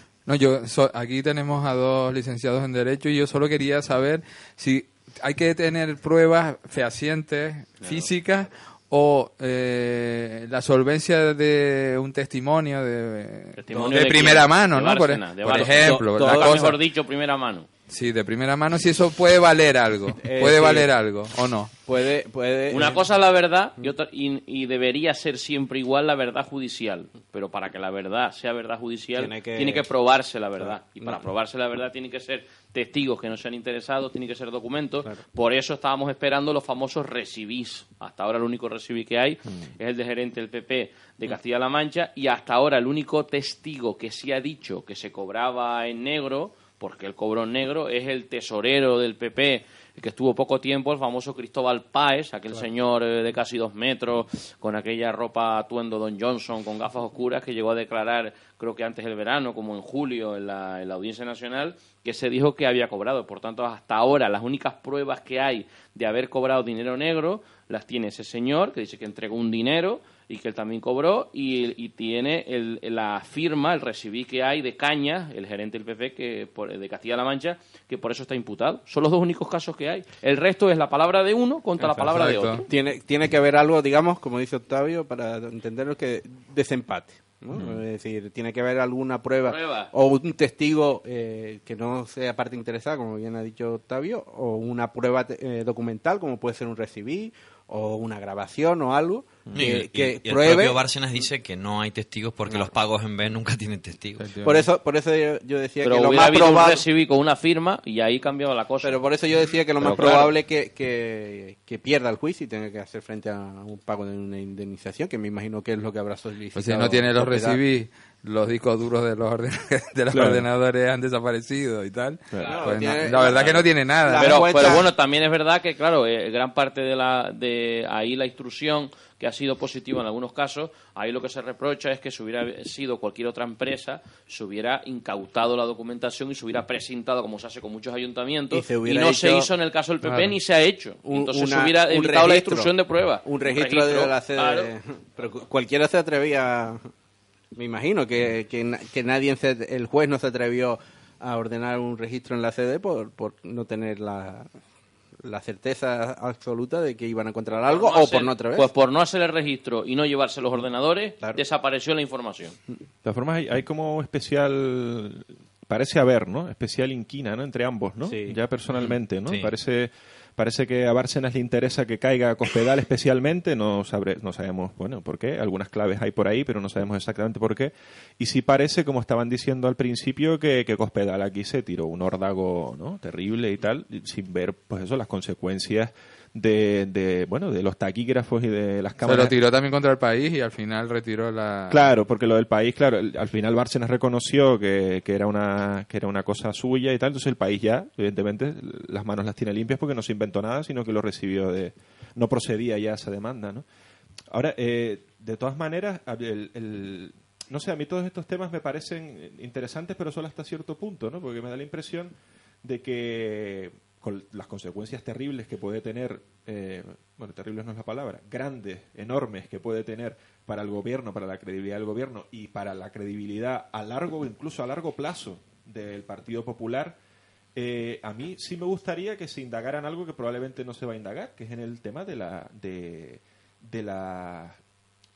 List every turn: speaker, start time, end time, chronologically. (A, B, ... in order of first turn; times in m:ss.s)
0:00.2-0:16.8 A
0:07.8-0:08.1 B
0:13.6-0:17.7 C
0:13.7-0:14.1 B
0:15.4-0:16.6 B
0:17.9-0:21.7 A
0:20.1-0:20.9 B
0:21.8-0:23.0 B
0:22.7-1:22.6 C
0:29.2-0:29.9 B
0:30.6-0:31.2 B
1:21.8-1:22.6 A
1:22.7-1:40.8 B
1:27.5-1:27.8 D
1:29.4-1:29.9 C
1:39.5-1:44.3 D
1:44.2-1:44.7 A
1:44.4-1:46.8 B
1:45.8-1:49.0 C
1:48.8-1:57.6 B
1:49.8-1:50.2 A
1:56.5-2:04.8 A
2:00.1-2:00.5 E
2:02.3-2:02.7 E
2:02.4-2:04.9 B
2:04.2-2:24.7 C
2:18.5-2:19.5 B
2:20.0-2:20.3 A
2:21.0-2:22.7 B
2:23.2-2:26.9 B
2:27.5-2:34.5 B
2:35.2-2:38.7 B
2:37.7-2:42.6 C
2:43.0-3:09.4 E
2:48.0-2:48.4 B
2:48.7-2:49.5 D
3:09.0-3:11.8 A
3:11.7-3:23.6 E
3:24.3-3:47.0 E
3:47.6-3:54.6 E